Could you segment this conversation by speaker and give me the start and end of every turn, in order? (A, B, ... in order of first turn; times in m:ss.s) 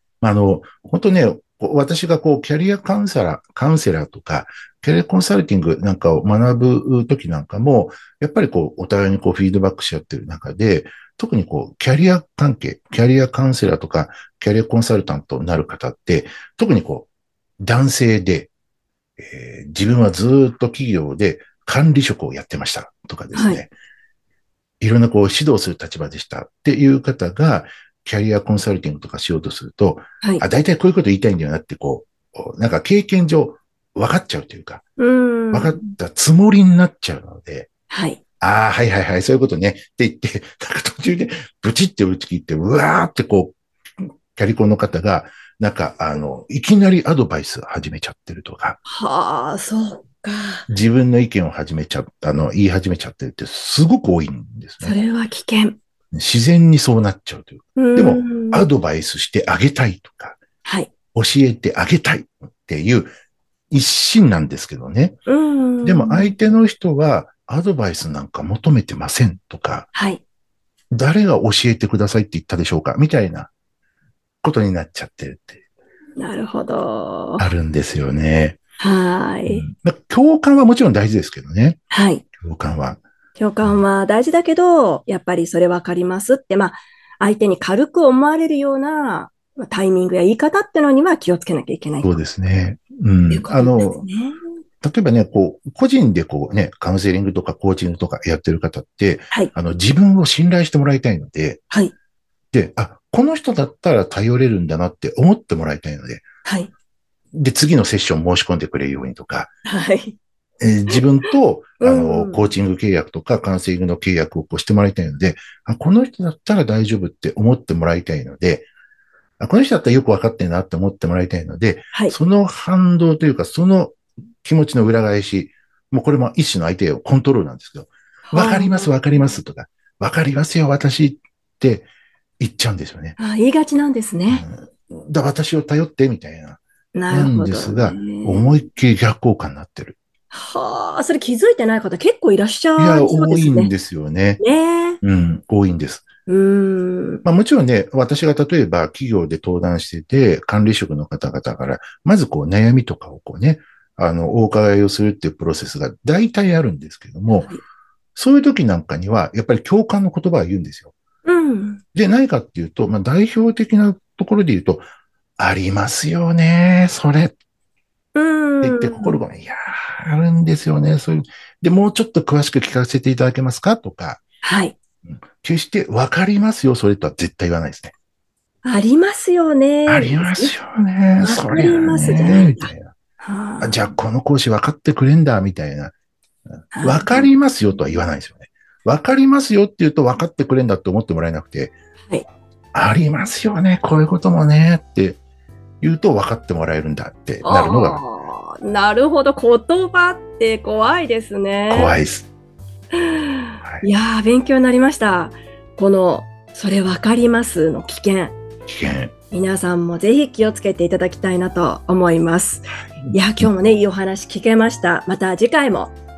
0:00.2-0:17.1 A
0:17.6-0:18.5 A
0:19.2-0:23.7 A
0:23.3-0:23.6 B
0:24.8-0:34.8 A
0:35.0-0:35.9 B
0:35.5-0:37.7 A
0:37.9-0:38.2 B
0:38.4-0:48.8 A
0:48.8-0:50.7 B
0:50.7-0:55.0 A
0:54.8-0:55.8 B
0:56.1-1:00.4 A
0:57.8-0:58.6 B
1:00.6-1:01.0 B
1:01.0-1:03.1 A
1:03.7-1:05.2 A
1:05.3-1:06.3 B
1:05.8-1:09.9 A
1:09.9-1:10.2 B
1:10.9-1:13.5 A
1:14.4-1:15.6 A
1:16.2-1:17.5 B
1:17.4-1:18.6 A
1:18.8-1:19.6 B
1:19.5-1:21.8 A
1:21.9-1:22.2 B
1:22.3-1:23.0 A
1:23.4-1:32.1 B
1:32.0-1:34.0 A
1:33.3-1:34.4 B
1:34.8-1:41.6 A
1:42.5-1:46.3 A
1:46.4-1:46.7 B
1:47.3-1:49.5 A
1:49.6-1:50.2 B
1:50.6-1:58.7 A
1:51.8-1:52.5 B
1:59.4-2:11.9 A
2:08.3-2:09.0 B
2:12.4-2:13.2 A
2:13.2-2:14.4 B
2:14.3-2:20.0 A
2:16.9-2:18.6 B
2:20.3-2:23.7 B
2:22.8-2:24.4 A
2:24.4-2:25.0 B
2:25.0-2:26.1 A
2:26.3-2:27.2 B
2:27.2-2:37.5 A
2:37.3-2:37.6 B
2:38.1-2:40.9 A
2:41.2-2:41.8 B
2:41.9-2:44.8 A
2:45.4-2:47.4 A
2:48.1-2:49.2 B
2:48.6-2:54.2 A
2:54.4-2:54.8 B
2:55.0-2:57.9 A
2:58.6-3:00.5 B
2:59.9-3:02.9 A
3:01.2-3:03.9 B
3:03.6-3:05.9 A
3:06.5-3:11.7 A
3:06.7-3:07.3 B
3:12.7-3:15.2 A
3:15.8-3:18.0 A
3:17.4-3:21.9 B
3:21.7-3:22.3 A
3:22.9-3:28.4 B
3:28.7-3:29.1 A
3:29.3-3:36.0 B
3:33.0-3:33.5 A